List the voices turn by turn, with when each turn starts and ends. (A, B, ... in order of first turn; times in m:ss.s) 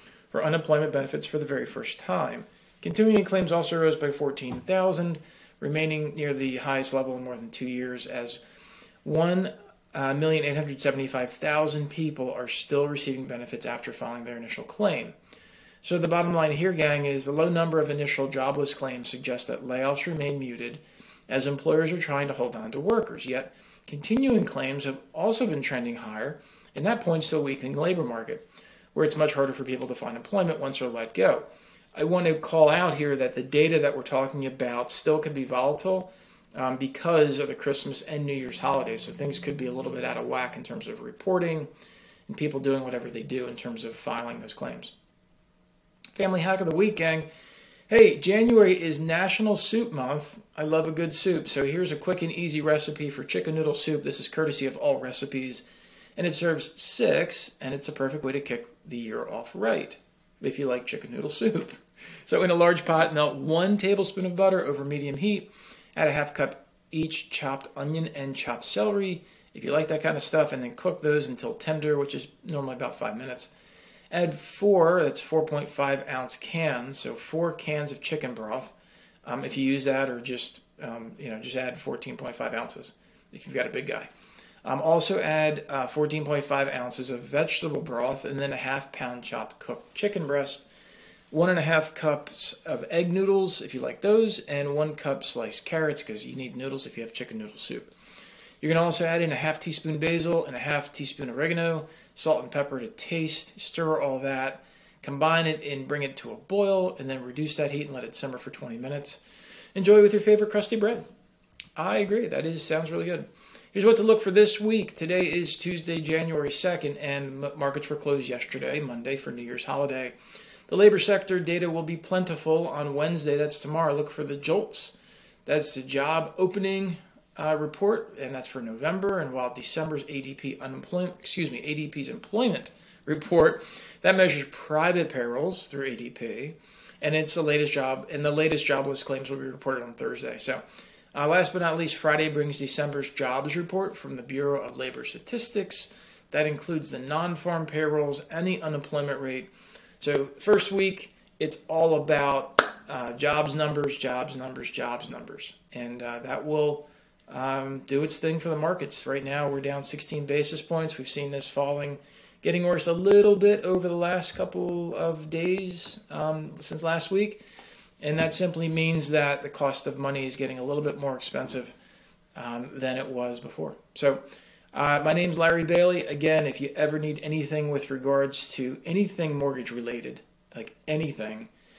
0:00.3-0:08.4 A
0:09.0-0:15.2 A
0:15.8-0:28.4 A
0:28.9-0:41.7 A
0:42.3-0:44.9 A
0:46.2-0:47.3 A
0:47.9-0:55.6 A
0:56.2-1:13.5 A
1:14.1-1:24.1 A
1:24.6-1:30.7 A
1:31.3-1:37.9 A
1:38.6-1:49.2 A
1:49.8-1:51.0 A
1:51.8-2:00.2 A
2:00.7-2:04.9 A
2:05.5-2:20.6 A
2:21.1-2:47.4 A
2:48.0-2:51.7 A
2:52.4-2:54.2 A
2:54.7-3:01.5 A